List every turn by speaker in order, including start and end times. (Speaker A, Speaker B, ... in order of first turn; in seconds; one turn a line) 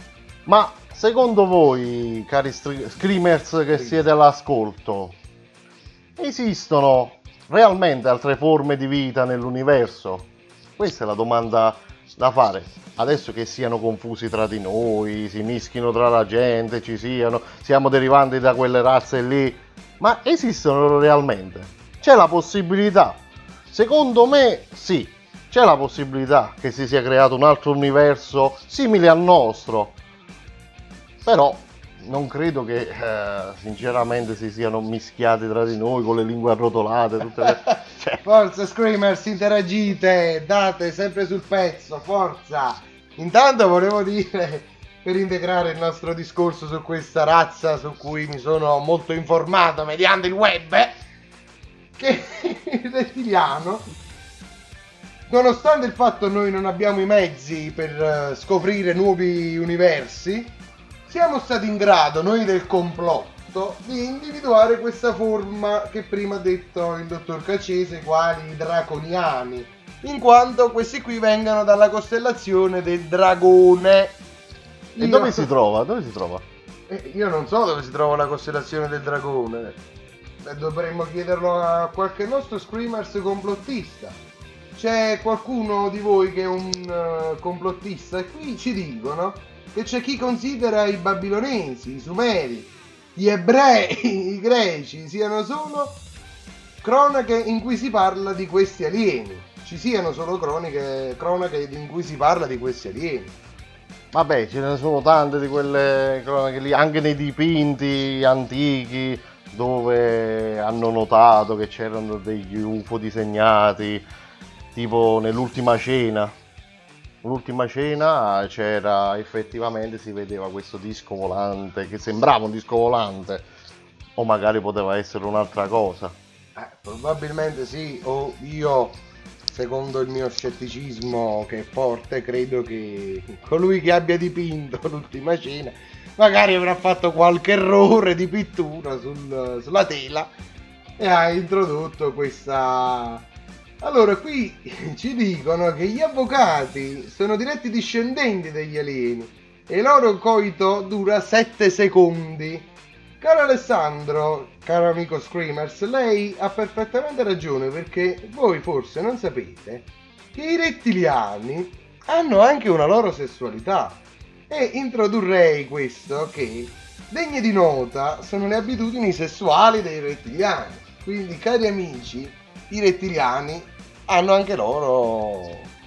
Speaker A: 0.5-5.2
Speaker B: 3.7-4.0
Speaker A: 6.2-30.0
Speaker A: 31.2-38.2
Speaker B: 38.2-51.0
Speaker B: 52.0-53.8
Speaker B: 55.3-60.5
Speaker B: 61.1-74.2
Speaker B: 75.0-75.5
Speaker A: 75.0-76.4
Speaker B: 76.9-79.8
Speaker B: 80.4-84.2
Speaker B: 84.8-96.0
Speaker B: 96.8-103.3
Speaker A: 104.1-114.1
Speaker A: 114.7-116.3
Speaker A: 117.2-123.5
Speaker A: 124.2-126.2
Speaker B: 126.6-140.3
Speaker B: 141.0-143.2
Speaker B: 143.8-152.7
Speaker B: 153.2-175.7